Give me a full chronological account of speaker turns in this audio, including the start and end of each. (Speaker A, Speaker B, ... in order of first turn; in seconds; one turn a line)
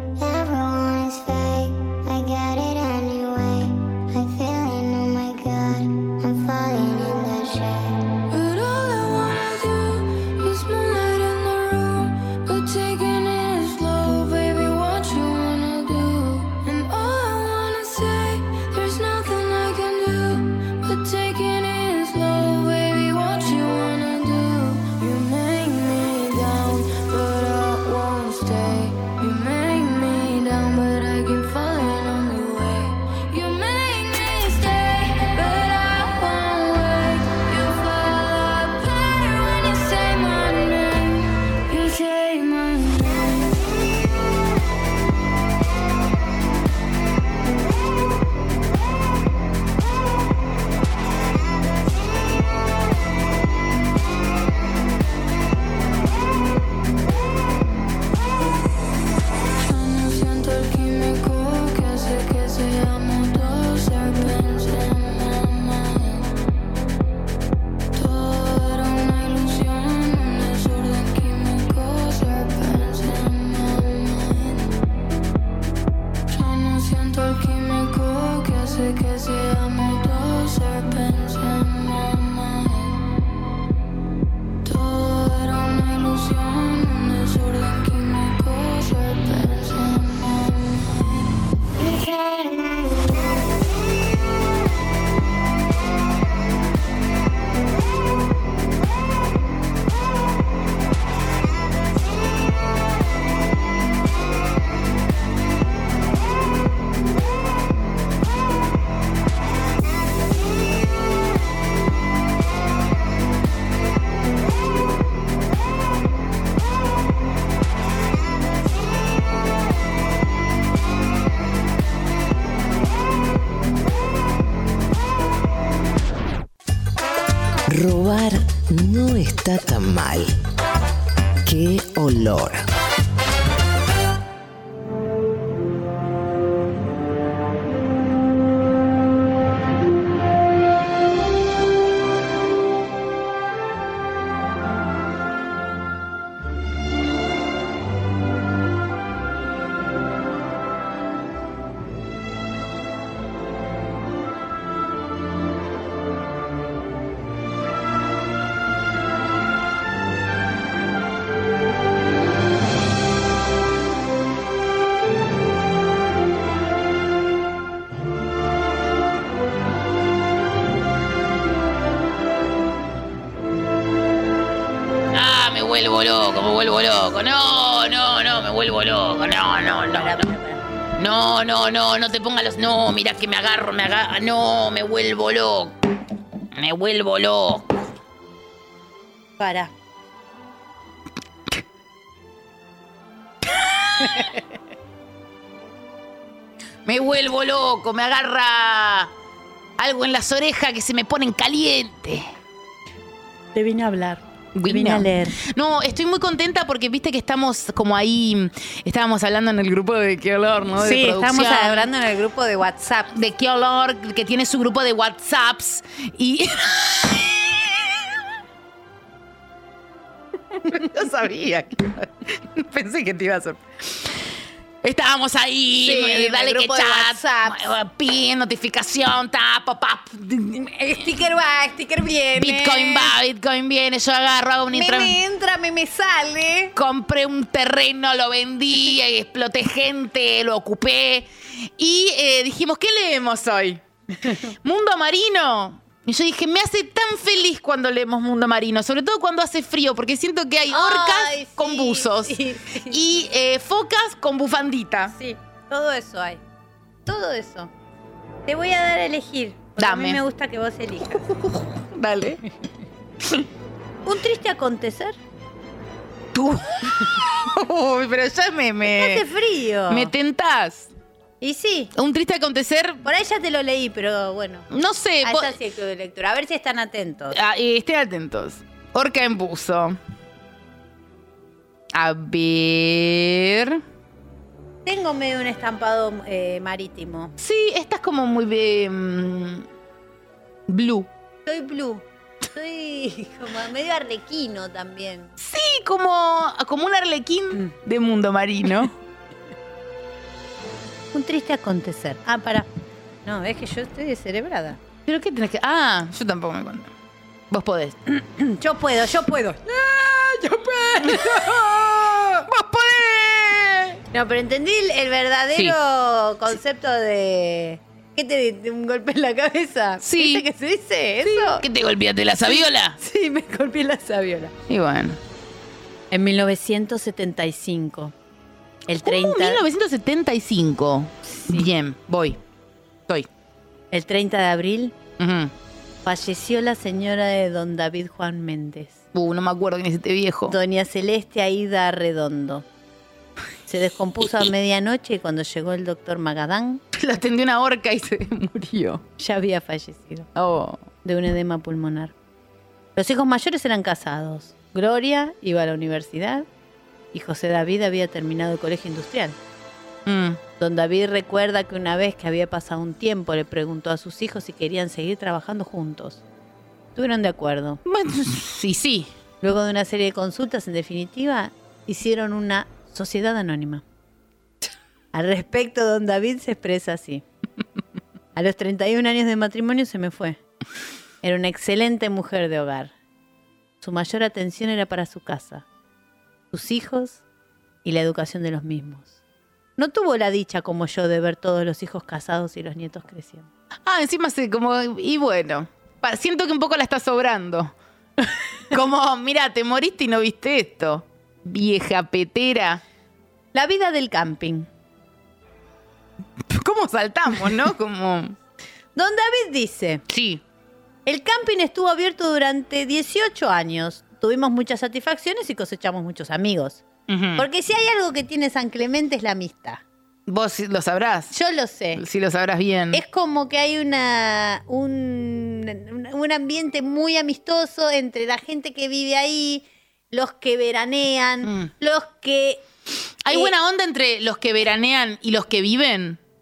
Speaker A: 0.2-7.9
Speaker B: 8.3-43.6
Speaker B: 59.6-66.4
Speaker B: 68.0-74.8
Speaker B: 76.3-83.1
Speaker B: 84.6-91.0
Speaker C: 127.7-130.3
Speaker C: 131.4-132.7
Speaker D: 175.1-180.3
Speaker E: 179.9-180.6
Speaker D: 181.0-185.8
Speaker D: 186.6-187.7
Speaker E: 189.4-189.7
Speaker D: 193.4-194.4
Speaker D: 196.9-199.1
Speaker D: 199.8-202.3
Speaker E: 203.5-205.4
Speaker D: 204.6-211.9
Speaker E: 210.8-213.1
Speaker D: 213.1-218.2
Speaker D: 220.6-224.1
Speaker D: 224.8-230.7
Speaker E: 225.8-227.7
Speaker E: 230.6-233.1
Speaker D: 232.4-235.2
Speaker E: 234.7-236.7
Speaker D: 236.8-243.8
Speaker E: 244.2-244.5
Speaker D: 244.6-255.1
Speaker E: 250.7-253.0
Speaker E: 255.1-256.4
Speaker E: 257.1-257.7
Speaker E: 258.5-261.3
Speaker D: 259.8-260.2
Speaker D: 261.2-262.4
Speaker E: 264.1-265.2
Speaker D: 266.3-269.3
Speaker E: 268.9-270.1
Speaker D: 269.9-270.9
Speaker E: 271.4-271.9
Speaker D: 271.9-273.0
Speaker E: 273.0-274.7
Speaker D: 274.7-275.6
Speaker E: 275.2-277.4
Speaker D: 277.3-280.0
Speaker D: 281.9-283.8
Speaker E: 284.9-287.3
Speaker D: 287.4-289.7
Speaker D: 290.7-291.1
Speaker E: 291.5-295.3
Speaker D: 295.4-298.9
Speaker E: 301.1-302.7
Speaker E: 303.3-304.8
Speaker D: 305.1-306.9
Speaker D: 307.5-308.0
Speaker E: 308.1-309.6
Speaker D: 309.7-314.0
Speaker E: 314.1-321.6
Speaker D: 315.5-315.8
Speaker D: 320.0-320.4
Speaker D: 321.2-323.0
Speaker E: 322.5-324.5
Speaker D: 324.7-325.2
Speaker E: 326.1-328.1
Speaker E: 328.9-329.6
Speaker D: 329.0-332.4
Speaker E: 331.2-331.7
Speaker E: 333.9-334.9
Speaker D: 335.2-335.5
Speaker E: 336.1-339.0
Speaker D: 339.1-340.6
Speaker E: 340.5-342.6
Speaker E: 343.7-346.8
Speaker D: 346.9-349.0
Speaker E: 349.2-350.3
Speaker D: 350.4-350.8
Speaker E: 351.0-352.1
Speaker E: 353.0-356.5
Speaker E: 357.1-359.4
Speaker D: 360.1-360.4
Speaker E: 360.6-366.2
Speaker E: 366.9-367.8
Speaker D: 367.9-369.1
Speaker E: 369.4-373.8
Speaker E: 375.1-377.2
Speaker E: 378.4-380.4
Speaker E: 381.2-382.9
Speaker E: 383.8-385.6
Speaker E: 386.5-387.2
Speaker E: 387.8-389.1
Speaker E: 389.8-393.5
Speaker D: 393.9-397.7
Speaker D: 398.7-402.8
Speaker E: 403.5-404.7
Speaker D: 406.5-408.4
Speaker E: 408.9-410.0
Speaker D: 410.1-410.4
Speaker E: 411.1-416.8
Speaker D: 417.1-417.5
Speaker E: 417.4-419.8
Speaker D: 420.3-421.4
Speaker E: 421.3-422.0
Speaker D: 421.9-423.0
Speaker E: 422.9-432.6
Speaker D: 431.4-431.7
Speaker D: 433.2-436.2